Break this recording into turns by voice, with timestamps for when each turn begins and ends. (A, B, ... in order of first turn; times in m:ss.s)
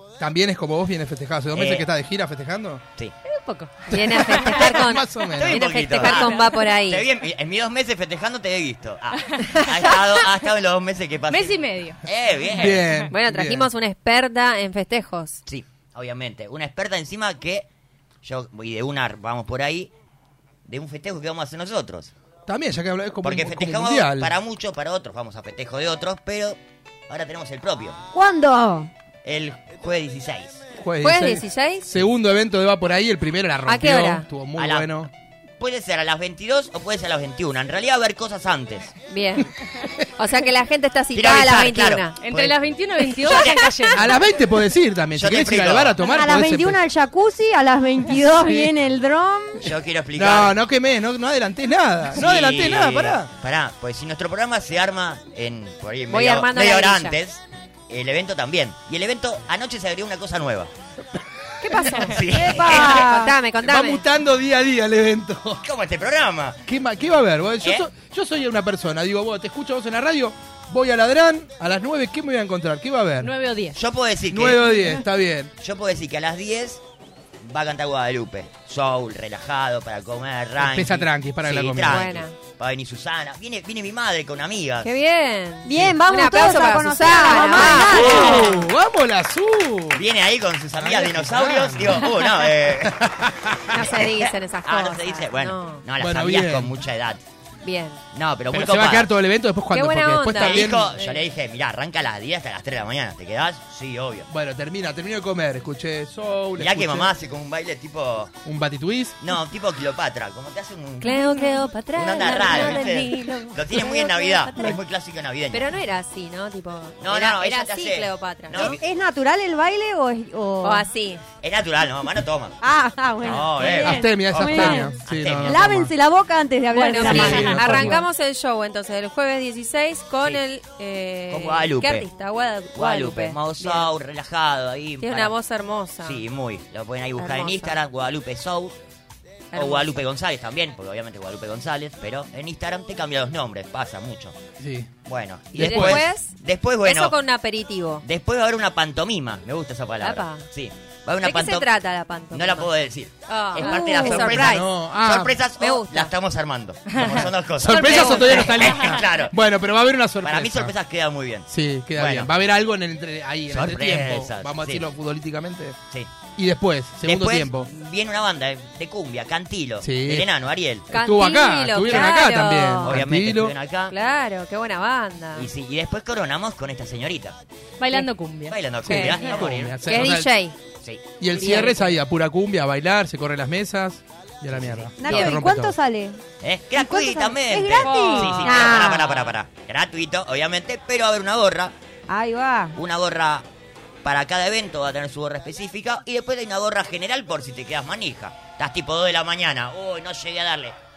0:00.2-0:02.8 A
0:01.5-0:01.9 B
0:03.2-0:04.6 C
0:03.9-0:07.1 D
0:03.9-0:05.7 A
0:05.4-0:12.8 B
0:06.1-0:06.5 C
0:09.3-0:10.3 C
0:11.3-0:12.0 C
0:12.5-0:13.7 A
0:13.1-0:15.4 D
0:15.5-0:17.7 B
0:18.2-0:19.9 B
0:20.6-0:22.1 B
0:22.5-0:24.3 A
0:23.2-0:28.0 B
0:28.1-0:28.9 E
0:29.2-0:30.6 B
0:30.8-0:35.1 A
0:31.0-0:31.9 D
0:33.7-0:34.3 D
0:34.6-0:34.9 B
0:35.6-0:39.0 B
0:39.1-0:39.5 D
0:40.2-0:42.2 D
0:41.1-0:44.0 B
0:42.2-0:44.0 C
0:43.9-0:46.8 A
0:45.2-0:46.0 B
0:46.0-0:49.7 E
0:48.4-0:48.7 A
0:49.6-0:50.6 B
0:50.2-0:53.3 A
0:52.2-1:00.7 B
0:56.1-0:57.2 D
1:01.2-1:02.0 A
1:01.6-1:04.0 D
1:02.0-1:03.1 B
1:02.3-1:03.4 E
1:03.6-1:05.6 A
1:05.6-1:06.6 B
1:06.7-1:13.3 A
1:13.2-1:13.8 C
1:13.8-1:14.7 B
1:14.3-1:15.5 A
1:15.6-1:16.8 B
1:17.4-1:24.9 B
1:20.6-1:22.1 A
1:21.8-1:22.4 D
1:24.8-1:28.5 D
1:25.6-1:28.6 E
1:27.6-1:30.0 A
1:30.0-1:37.2 B
1:30.8-1:33.6 A
1:33.7-1:35.8 D
1:36.0-1:36.8 A
1:37.6-1:38.0 D
1:38.1-1:39.1 B
1:38.5-1:40.9 A
1:39.7-1:40.8 D
1:40.3-1:44.3 B
1:44.3-1:47.1 A
1:46.6-1:48.4 B
1:48.4-1:49.2 A
1:49.2-1:55.7 B
1:51.0-1:54.8 D
1:55.5-1:58.8 D
1:57.0-1:58.8 B
1:58.5-2:00.9 E
2:00.6-2:01.2 D
2:01.4-2:02.6 B
2:02.6-2:08.0 E
2:03.2-2:05.6 B
2:03.7-2:05.9 A
2:06.7-2:13.9 D
2:07.0-2:08.0 A
2:11.3-2:12.1 B
2:12.8-2:15.4 B
2:15.0-2:16.2 D
2:16.0-2:18.8 B
2:17.2-2:17.8 D
2:19.5-2:20.0 D
2:19.5-2:24.4 B
2:24.6-2:24.9 A
2:25.1-2:27.2 B
2:25.5-2:26.0 A
2:25.6-2:28.0 D
2:28.0-2:31.7 B
2:30.0-2:30.5 D
2:31.2-2:32.7 D
2:32.3-2:39.3 B
2:33.3-2:34.7 D
2:34.2-2:35.4 A
2:35.6-2:36.1 D
2:36.9-2:37.3 C
2:37.6-2:40.7 A
2:37.6-2:38.5 D
2:38.7-2:39.0 C
2:40.2-2:42.3 B
2:41.5-2:45.8 A
2:43.5-2:44.9 B
2:46.4-2:47.7 A
2:47.0-2:50.9 B
2:49.8-2:50.3 A
2:50.9-2:53.6 A
2:50.9-2:53.0 D
2:52.8-2:54.0 B
2:53.9-2:55.5 D
2:55.4-2:57.4 B
2:57.8-2:59.4 C
2:58.5-3:00.0 B
2:58.8-2:59.3 D
2:58.9-3:00.3 A
2:59.8-3:00.6 D
3:01.2-3:05.7 A
3:01.3-3:01.9 D
3:04.5-3:05.4 B
3:05.0-3:06.2 E
3:06.4-3:11.7 B
3:06.7-3:09.1 E
3:07.8-3:09.3 C
3:12.1-3:12.8 E
3:12.8-3:13.5 B
3:14.0-3:20.8 B